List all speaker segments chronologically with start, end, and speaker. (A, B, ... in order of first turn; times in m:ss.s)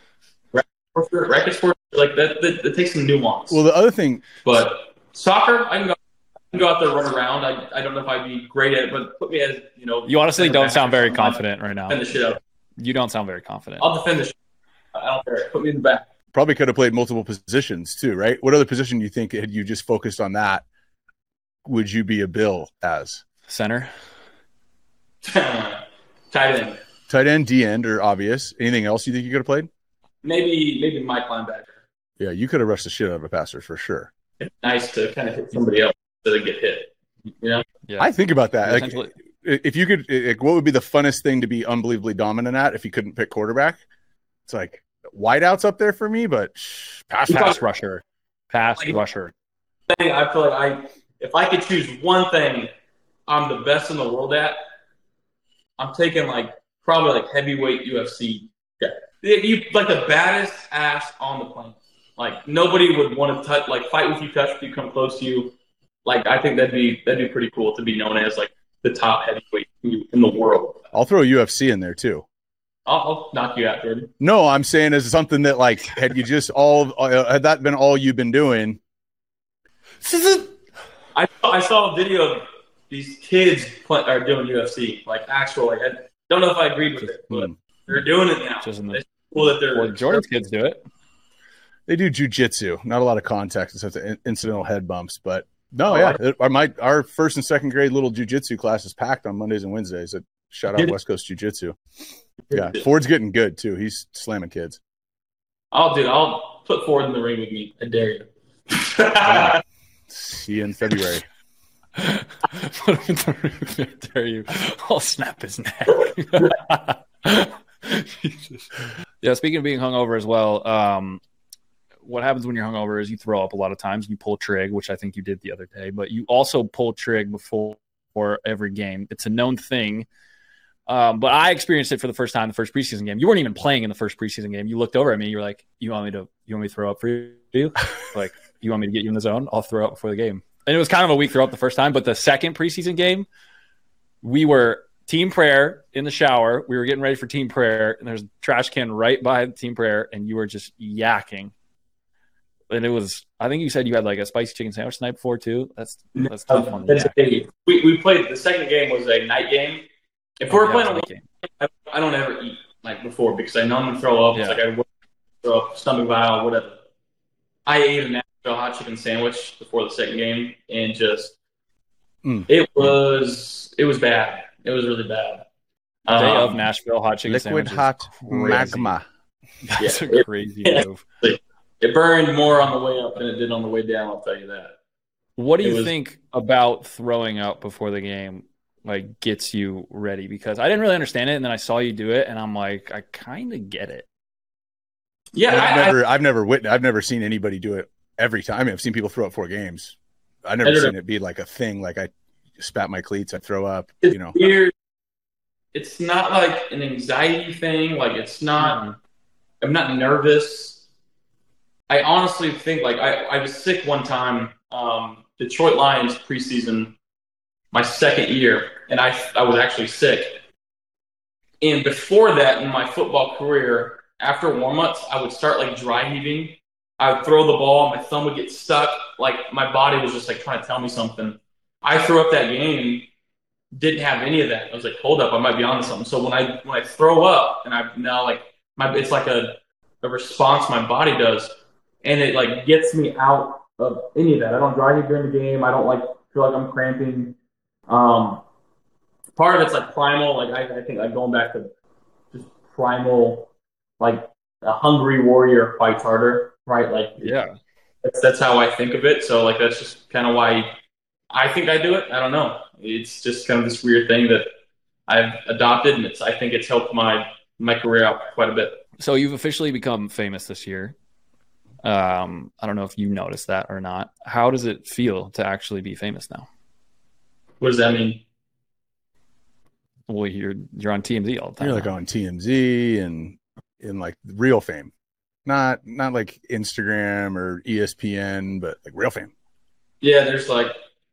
0:00.5-0:03.6 A
0:03.5-0:04.2 B
0:04.4-0:06.0 A
0:06.5-0:12.4 A
0:10.1-0:12.0 C
0:12.8-0:13.8 C
0:13.8-0:14.4 A
0:14.9-0:16.1 A
0:16.3-0:20.6 B
0:21.6-0:23.2 B
0:23.5-0:23.9 C
0:25.2-0:26.8 A
0:27.1-0:29.7 B
0:30.2-0:31.8 A
0:32.2-0:34.1 B
0:34.4-0:37.7 A
0:37.8-0:38.1 C
0:38.0-0:43.8 B
0:38.6-0:39.1 C
0:44.4-0:47.6 B
0:47.3-0:47.6 A
0:47.3-0:49.3 C
0:49.9-0:52.7 A
0:53.3-0:54.6 A
0:55.8-1:10.8 A
1:10.9-1:12.2 B
1:12.8-1:14.1 A
1:14.2-1:18.8 B
1:20.0-1:20.4 C
1:21.1-1:30.2 A
1:27.3-1:27.5 B
1:28.6-1:29.0 C
1:29.7-1:30.8 C
1:31.9-1:41.8 B
1:35.9-1:36.2 A
1:42.5-1:42.8 A
1:42.5-1:44.8 B
1:45.7-1:49.6 A
1:49.2-1:49.6 B
1:50.1-1:51.2 B
1:52.0-2:01.2 C
2:02.0-2:10.1 C
2:10.9-2:23.3 C
2:24.2-2:31.5 C
2:32.7-2:37.2 C
2:36.2-2:39.9 A
2:40.4-2:44.9 A
2:40.5-2:41.2 C
2:44.3-2:44.6 C
2:45.4-2:46.8 A
2:47.6-2:51.3 A
2:52.5-2:55.5 A
2:56.0-2:56.6 A
2:56.1-2:59.0 C
2:57.2-2:59.0 B
2:59.6-3:01.0 C
2:59.8-3:04.8 A
3:05.4-3:14.1 C
3:05.6-3:05.9 A
3:15.3-3:16.0 A
3:15.5-3:24.4 B
3:20.6-3:20.9 A
3:24.0-3:24.7 A
3:25.7-3:28.8 A
3:28.6-3:29.0 C
3:29.6-3:30.8 A
3:31.9-3:37.0 A
3:37.7-3:40.4 A
3:41.6-3:53.1 A
3:53.7-4:01.5 A
4:02.0-4:07.4 A
4:07.9-4:08.4 A
4:09.4-4:11.7 A
4:12.3-4:13.5 A
4:14.0-4:17.3 A
4:17.2-4:17.5 C
4:18.0-4:20.7 A
4:21.3-4:24.5 A
4:25.1-4:28.8 A
4:29.0-4:31.0 C
4:31.8-4:36.5 C
4:37.6-4:38.2 A
4:40.1-4:41.9 C
4:41.6-4:44.9 B
4:45.4-4:49.3 B
4:50.0-4:50.7 A